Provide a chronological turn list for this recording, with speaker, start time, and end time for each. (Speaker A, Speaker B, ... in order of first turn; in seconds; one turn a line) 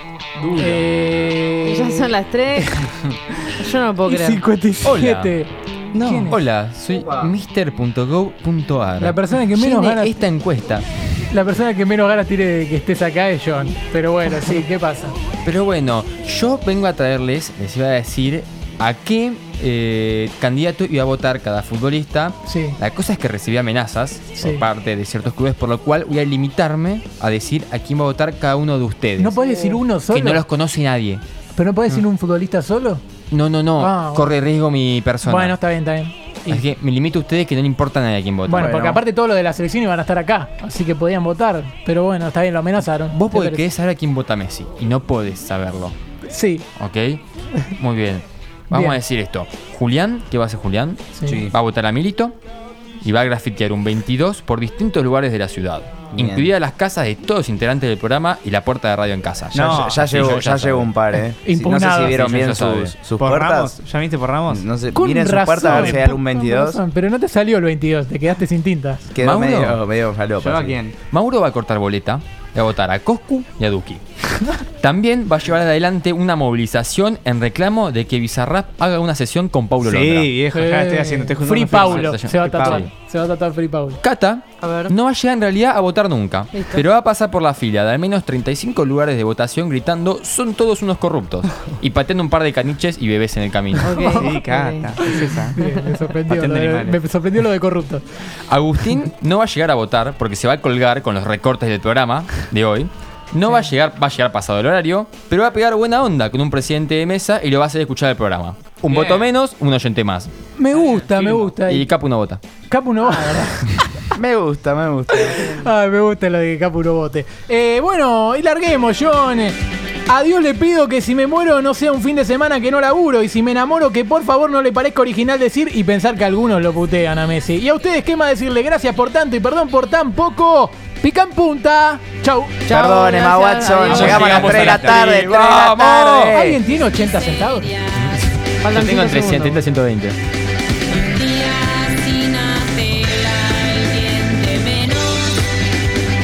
Speaker A: 0.4-0.8
Speaker B: 0.6-3.5
Speaker C: 1.6-3.0
Speaker C: 3.5-4.4
Speaker B: 4.0-5.5
Speaker D: 4.8-5.3
Speaker C: 5.9-6.3
Speaker B: 6.0-6.3
Speaker D: 6.0-10.8
Speaker B: 9.0-10.2
Speaker B: 11.3-15.2
Speaker D: 15.4-31.2
Speaker B: 22.4-22.8
Speaker B: 24.4-24.7
Speaker B: 29.2-30.4
Speaker B: 31.6-33.0
Speaker D: 33.3-35.6
Speaker B: 33.8-34.3
Speaker B: 35.2-36.6
Speaker D: 36.5-38.7
Speaker B: 38.5-43.6
Speaker E: 38.5-39.0
Speaker D: 43.1-45.9
Speaker B: 46.3-46.6
Speaker D: 46.8-52.3
Speaker B: 48.7-49.0
Speaker B: 51.1-51.5
Speaker E: 51.2-51.5
Speaker D: 53.0-60.9
Speaker E: 56.1-56.5
Speaker A: 59.5-60.2
Speaker E: 59.5-63.7
Speaker B: 61.4-62.3
Speaker D: 62.0-63.0
Speaker A: 63.2-64.6
Speaker E: 64.5-66.8
Speaker B: 64.9-69.1
Speaker E: 69.1-70.8
Speaker D: 69.2-69.8
Speaker A: 70.4-70.9
Speaker D: 70.9-80.3
Speaker A: 79.8-82.8
Speaker B: 80.5-84.0
Speaker D: 81.8-82.9
Speaker D: 84.0-94.0
Speaker C: 84.6-84.9
Speaker C: 86.5-86.8
Speaker C: 93.8-95.0
Speaker B: 93.9-94.5
Speaker A: 94.2-95.6
Speaker B: 95.0-98.2
Speaker C: 95.6-96.0
Speaker A: 96.3-97.0
Speaker D: 98.5-110.3
Speaker A: 108.9-109.2
Speaker B: 110.5-111.9
Speaker A: 110.7-111.5
Speaker D: 111.6-112.4
Speaker B: 112.7-114.0
Speaker E: 114.1-115.7
Speaker B: 115.1-132.7
Speaker E: 132.7-136.6
Speaker A: 132.7-133.1
Speaker C: 132.8-134.2
Speaker D: 133.8-136.4
Speaker A: 133.8-135.0
Speaker B: 136.3-137.7
Speaker C: 137.2-139.7
Speaker D: 137.9-140.2
Speaker C: 140.9-145.4